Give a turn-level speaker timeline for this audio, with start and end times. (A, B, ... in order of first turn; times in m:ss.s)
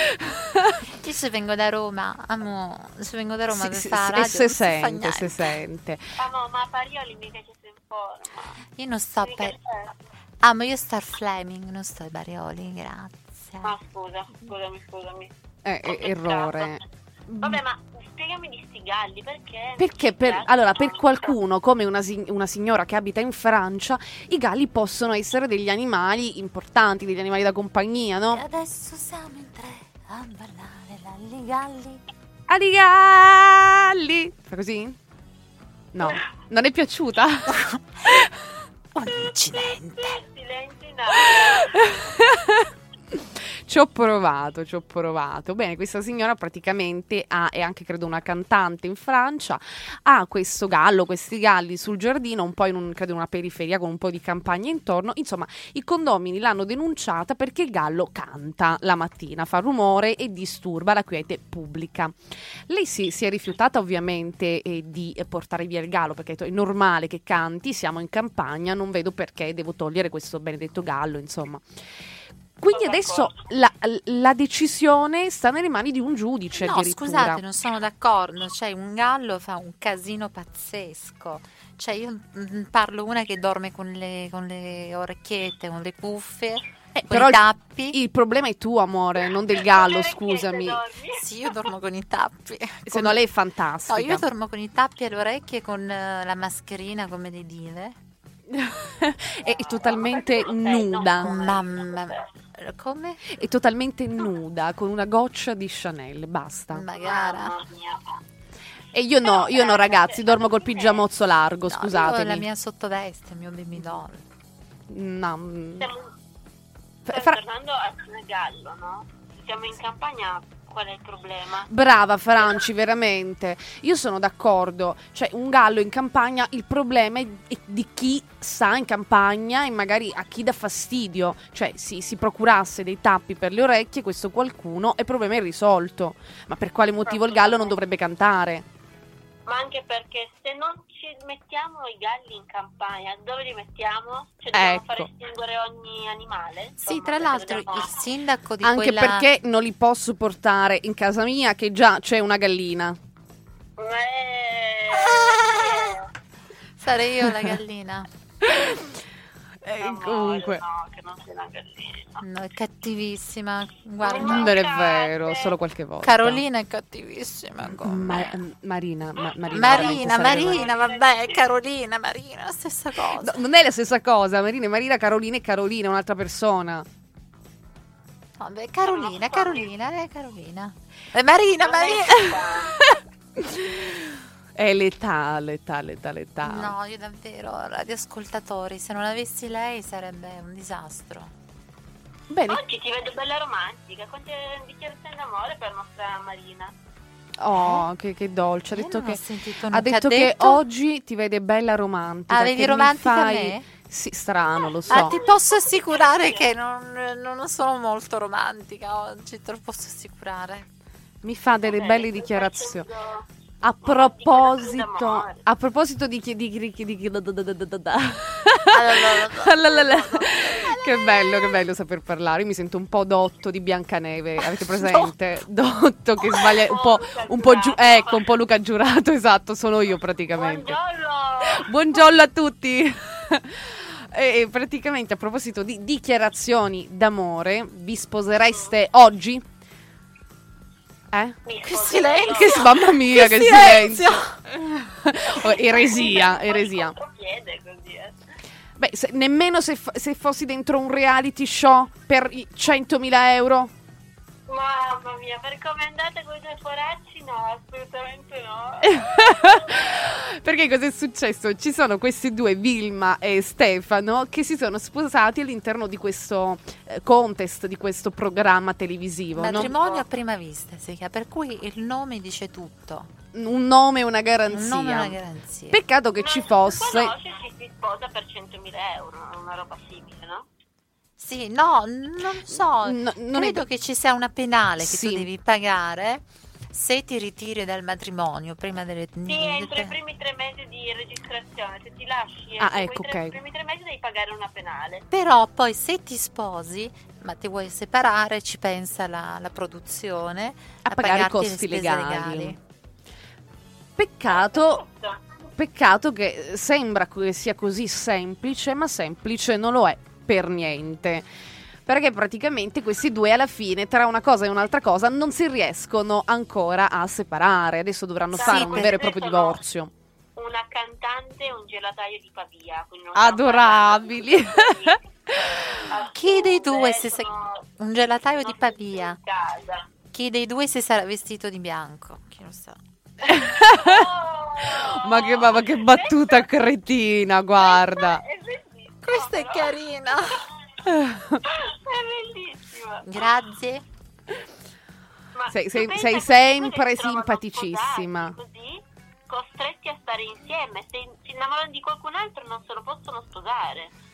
0:00.2-0:00.8 A
0:00.9-0:05.6 B
0:03.5-0:06.0 A
0:06.2-0:08.6 C
0:08.8-0:09.6 B
0:09.2-0:09.9 C
0:10.4-0:13.8 B
0:13.6-0:15.3 C
0:15.6-0:17.6 A
0:15.8-0:16.8 C
0:17.4-0:21.3 C
0:19.8-0:28.4 A
0:28.3-0:32.0 B
0:32.5-0:35.0 A
0:35.9-0:37.5 A
0:37.5-0:37.8 B
0:38.9-0:40.2 B
0:39.3-0:42.1 C
0:41.6-1:11.6 A
1:12.6-1:17.4 A
1:12.7-1:13.4 C
1:16.5-1:28.0 B
1:27.0-1:30.8 A
1:29.5-1:31.2 C
1:31.2-1:33.2 B
1:32.9-1:34.3 A
1:33.9-1:38.0 B
1:38.5-1:41.4 A
1:39.7-1:42.2 C
1:41.2-1:43.2 B
1:43.2-1:46.8 A
1:46.7-1:47.6 B
1:47.0-1:48.0 C
1:48.9-1:52.4 A
1:49.2-1:51.0 C
1:51.7-1:54.2 B
1:54.9-1:55.9 A
1:55.8-1:56.1 C
1:57.1-1:57.4 A
1:57.1-2:01.7 C
2:01.7-2:18.6 A
2:17.1-2:17.7 C
2:19.5-2:28.0 C
2:24.5-2:25.1 A
2:26.8-2:29.3 B
2:28.6-2:33.0 A
2:33.8-2:36.1 C
2:36.8-2:38.1 B
2:38.4-2:39.0 A
2:39.6-2:40.6 A
2:39.8-2:42.2 C
2:42.2-2:44.5 B
2:44.0-2:45.5 C
2:44.1-2:46.4 A
2:46.0-2:48.4 B
2:47.7-2:50.7 A
2:49.5-2:51.4 C
2:49.5-2:53.4 B
2:53.1-2:56.9 A
2:58.4-3:02.3 B
2:58.9-2:59.7 C
3:01.6-3:02.8 C
3:02.8-3:06.7 A
3:06.4-3:11.3 B
3:12.3-3:12.6 A
3:12.5-3:16.7 C
3:17.4-3:19.2 A
3:17.6-3:17.8 B
3:18.7-3:20.6 B
3:19.7-3:25.2 A
3:22.3-3:23.7 B
3:24.6-3:26.5 C
3:24.9-3:30.7 B
3:31.2-3:32.9 A
3:31.7-3:33.2 C
3:33.6-3:50.8 A
3:33.8-3:35.4 C
3:38.7-3:41.0 B
3:46.4-3:48.3 C
3:50.3-3:51.7 C
3:51.4-3:59.4 A
4:01.1-4:01.4 A
4:01.4-4:02.9 C
4:01.6-4:04.6 B
4:02.4-4:04.2 A
4:04.8-4:07.0 A
4:05.7-4:08.2 C
4:08.8-4:13.7 A
4:14.5-4:19.7 C
4:18.8-4:29.8 A
4:29.4-4:33.1 B
4:29.6-4:30.0 C
4:33.3-4:35.2 A
4:34.5-4:35.8 B
4:35.7-4:37.1 A
4:36.2-4:40.5 C
4:41.2-4:50.0 B
4:42.5-4:43.6 A
4:44.8-4:45.3 A
4:49.3-4:55.1 C
4:52.6-4:53.4 A
4:55.1-5:02.6 B
5:00.8-5:02.6 A
5:04.0-5:04.8 A
5:04.3-5:05.2 C
5:05.6-5:11.3 A
5:11.9-5:19.9 A
5:18.4-5:19.0 B
5:18.4-5:19.6 C
5:20.4-5:25.0 C
5:23.2-5:25.9 A
5:25.7-5:27.7 C
5:26.1-5:29.2 B
5:28.4-5:29.9 C
5:30.1-5:32.8 B
5:33.3-5:36.4 C
5:33.3-5:38.2 A
5:37.6-5:40.4 C
5:39.0-5:40.4 B
5:40.8-5:41.4 A
5:41.4-5:43.3 C
5:43.0-5:43.8 B
5:45.4-5:53.9 C
5:45.5-5:48.4 A